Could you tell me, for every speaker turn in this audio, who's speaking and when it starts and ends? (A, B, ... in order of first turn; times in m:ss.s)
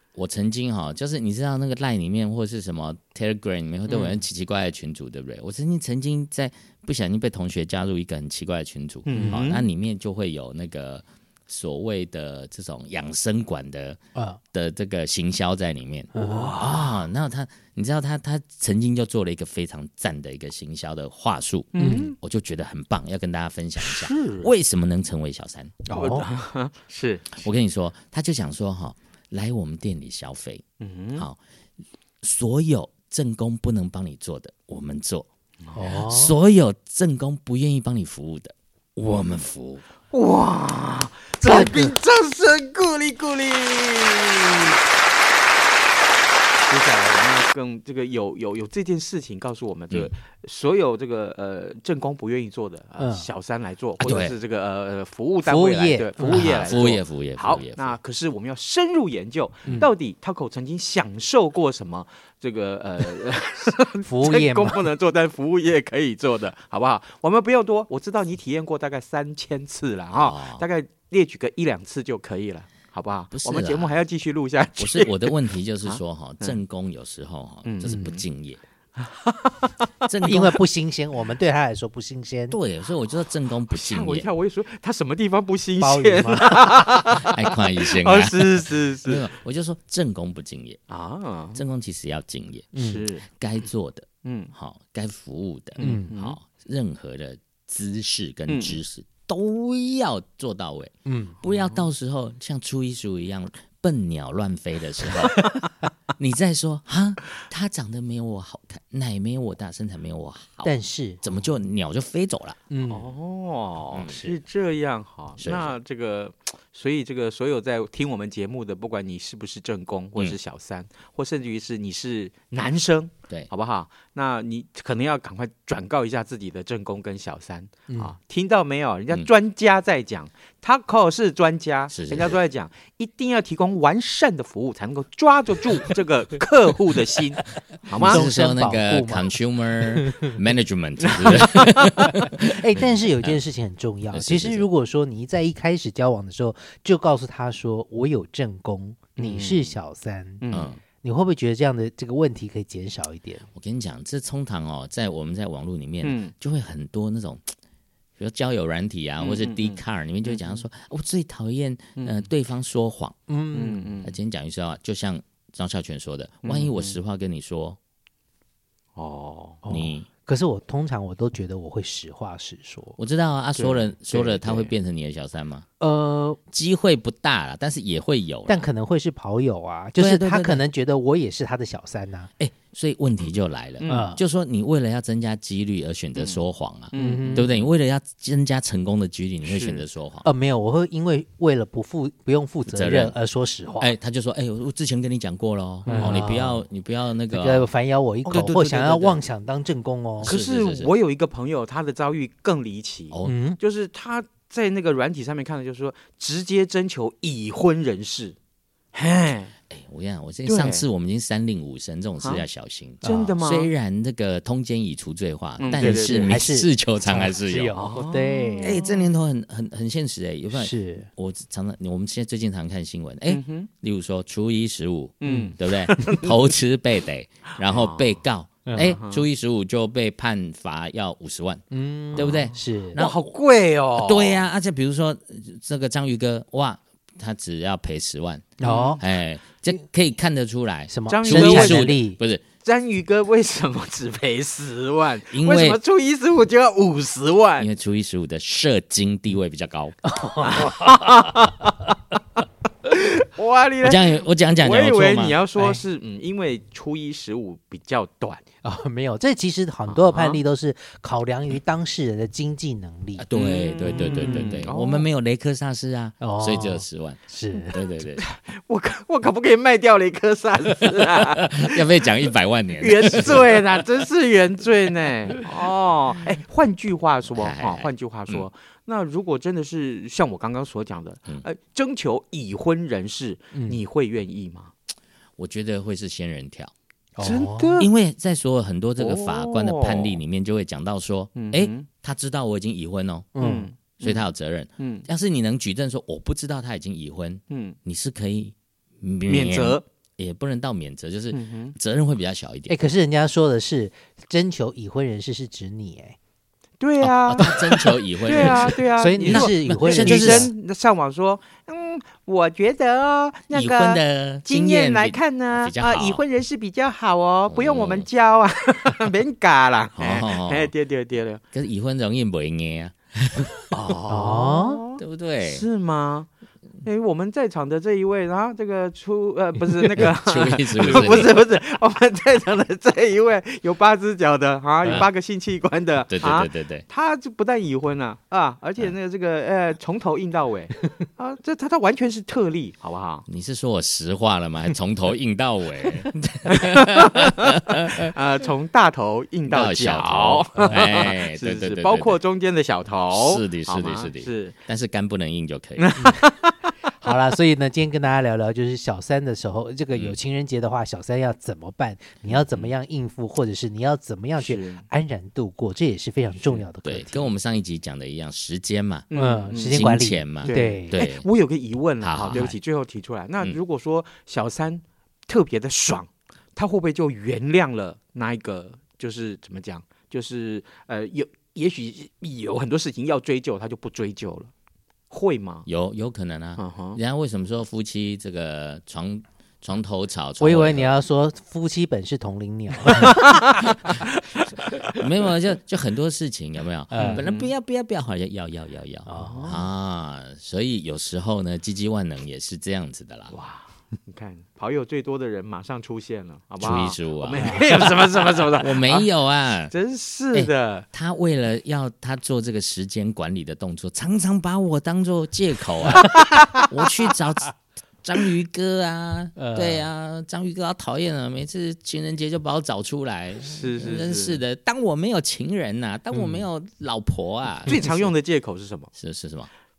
0:00.2-0:14.0 A
0:03.9-0:04.2 B
0:09.1-0:09.7 B
0:09.1-0:09.4 C
0:14.2-0:14.4 C
0:14.5-0:25.8 A
0:16.2-0:16.6 C
0:16.2-0:17.0 B
0:21.7-0:22.2 B
0:21.8-0:22.1 C
0:23.8-0:24.5 B
0:25.8-0:26.3 C
0:25.9-0:27.5 B
0:27.4-0:30.6 A
0:30.8-0:31.3 B
0:32.2-0:35.3 A
0:35.7-0:36.4 C
0:35.8-0:39.8 A
0:40.1-0:44.8 B
0:41.4-0:42.0 C
0:46.6-1:16.6 B
0:53.0-0:53.3 C
0:54.0-0:54.4 A
0:55.4-0:56.8 C
0:56.2-0:58.0 A
1:04.0-1:04.8 C
1:10.1-1:10.6 A
1:13.3-1:14.0 A
1:14.8-1:18.6 A
1:17.6-1:18.0 B
1:17.8-1:18.2 C
1:19.0-1:19.7 B
1:20.1-1:20.6 A
1:20.2-1:22.6 C
1:22.5-1:24.3 A
1:23.7-1:29.3 B
1:25.8-1:26.5 C
1:27.2-1:30.8 A
1:30.9-1:31.6 B
1:31.6-1:32.7 A
1:32.7-1:33.1 C
1:32.8-1:33.3 B
1:33.3-1:45.4 A
1:34.2-1:34.5 B
1:35.8-1:36.4 B
1:35.8-1:36.1 C
1:38.5-1:38.8 B
1:41.1-1:41.4 C
1:41.5-1:41.9 B
1:45.4-1:45.6 B
1:46.2-1:52.6 A
1:50.6-1:51.2 C
1:52.7-1:53.1 C
1:52.9-2:18.2 B
1:53.9-1:54.4 A
1:55.4-1:55.7 A
2:07.9-2:08.2 C
2:11.9-2:12.4 A
2:17.9-2:23.4 A
2:18.0-2:19.4 C
2:19.9-2:20.3 C
2:21.1-2:21.7 B
2:22.2-2:30.4 C
2:24.1-2:24.7 A
2:29.2-2:29.8 B
2:30.4-2:30.8 B
2:30.5-2:30.8 A
2:31.0-2:33.5 C
2:33.6-2:37.4 A
2:36.0-2:36.3 B
2:38.2-2:43.2 A
2:39.2-2:40.6 B
2:42.0-2:42.3 B
2:43.3-2:44.0 C
2:43.5-2:44.2 B
2:44.0-2:47.8 A
2:46.4-2:47.0 B
2:49.0-2:49.6 B
2:49.6-2:53.0 C
2:49.7-2:50.1 A
2:53.0-2:55.7 A
2:53.6-2:54.7 B
2:55.8-2:56.4 C
2:56.5-2:58.7 A
2:58.5-3:02.3 C
3:00.0-3:00.6 A
3:02.4-3:10.3 A
3:03.8-3:04.1 B
3:03.9-3:04.2 C
3:06.2-3:07.4 B
3:06.9-3:07.6 C
3:09.4-3:09.8 B
3:10.2-3:13.9 C
3:12.7-3:13.2 A
3:13.8-3:17.7 A
3:15.9-3:16.2 B
3:15.9-3:16.6 C
3:17.3-3:20.4 C
3:18.2-3:19.2 A
3:20.2-3:20.9 A
3:20.2-3:28.4 B
3:23.1-3:23.4 A
3:23.2-3:23.6 C
3:28.9-3:29.5 B
3:29.7-3:37.8 A
3:30.5-3:30.8 B
3:33.0-3:33.4 C
3:33.0-3:33.7 B
3:35.6-3:36.4 B
3:35.8-3:38.8 C
3:37.8-3:39.1 B
3:38.6-3:51.6 A
3:40.5-3:41.1 C
3:43.3-3:43.7 B
3:45.2-3:46.4 B
3:45.3-3:45.5 C
3:47.6-3:48.2 B
3:48.7-3:49.0 C
3:49.0-3:49.2 B
3:51.7-3:53.0 C
3:52.1-3:53.2 A
3:52.2-3:54.4 B
3:54.0-4:02.4 A
3:58.6-3:59.0 C
3:58.6-3:59.0 B
4:00.9-4:02.2 C
4:01.1-4:02.0 B
4:02.6-4:07.7 B
4:05.3-4:05.8 A
4:07.6-4:10.0 A
4:10.1-4:10.8 C
4:10.5-4:11.7 B
4:12.8-4:18.4 B
4:13.8-4:15.4 A
4:18.6-4:23.3 C
4:19.9-4:20.4 B
4:23.2-4:28.2 A
4:23.3-4:25.1 B
4:23.8-4:24.7 C
4:26.2-4:27.8 C
4:28.2-4:31.7 B
4:31.4-4:33.6 A
4:32.8-4:44.7 B
4:37.3-4:38.5 A
4:43.5-4:43.8 C
4:45.4-4:46.7 A
4:47.2-4:47.8 C
4:47.2-4:47.9 B
4:47.8-4:53.3 A
4:49.0-4:50.2 B
4:51.4-4:51.9 B
4:53.4-4:53.7 C
4:53.4-4:54.3 B
4:54.0-5:02.8 A
4:54.8-4:55.0 B
4:57.5-4:57.8 B
4:59.3-4:59.8 B
5:01.3-5:01.7 B
5:02.7-5:06.2 C
5:06.8-5:07.5 B
5:07.0-5:10.5 A
5:07.4-5:07.8 C
5:08.2-5:21.4 B
5:08.4-5:10.5 C
5:13.5-5:16.2 A
5:17.5-5:18.1 A
5:20.0-5:20.7 A
5:21.5-5:23.7 A
5:23.7-5:26.3 B
5:24.1-5:24.8 C
5:25.0-5:25.6 A
5:26.8-5:43.2 B
5:30.0-5:31.3 A
5:36.1-5:36.8 A
5:43.3-5:48.1 A
5:46.5-5:47.3 B
5:48.0-5:54.6 B
5:49.5-5:52.2 A
5:53.1-5:56.0 A
5:55.8-5:56.5 B
5:56.9-6:07.3 C
6:02.3-6:02.7 A
6:04.4-6:04.9 B
6:06.4-6:11.3 A
6:09.1-6:09.9 B
6:09.1-6:11.0 C
6:10.4-6:24.5 B
6:12.0-6:12.6 A
6:25.1-6:25.7 B
6:25.7-6:31.0 A
6:26.6-6:27.0 B
6:30.4-6:33.2 C
6:33.0-6:33.4 B
6:34.9-6:43.4 A
6:36.9-6:37.2 C
6:37.0-6:37.5 B
6:39.1-6:39.6 C
6:39.2-6:39.7 B
6:43.3-6:49.1 B
6:46.6-6:47.8 A
6:48.5-6:49.7 A
6:49.7-6:50.9 B
6:50.3-7:07.8 A
6:56.0-6:56.4 B
6:59.4-6:59.9 C
7:03.4-7:04.4 B
7:07.7-7:08.9 B
7:07.7-7:08.1 C
7:09.0-7:09.5 A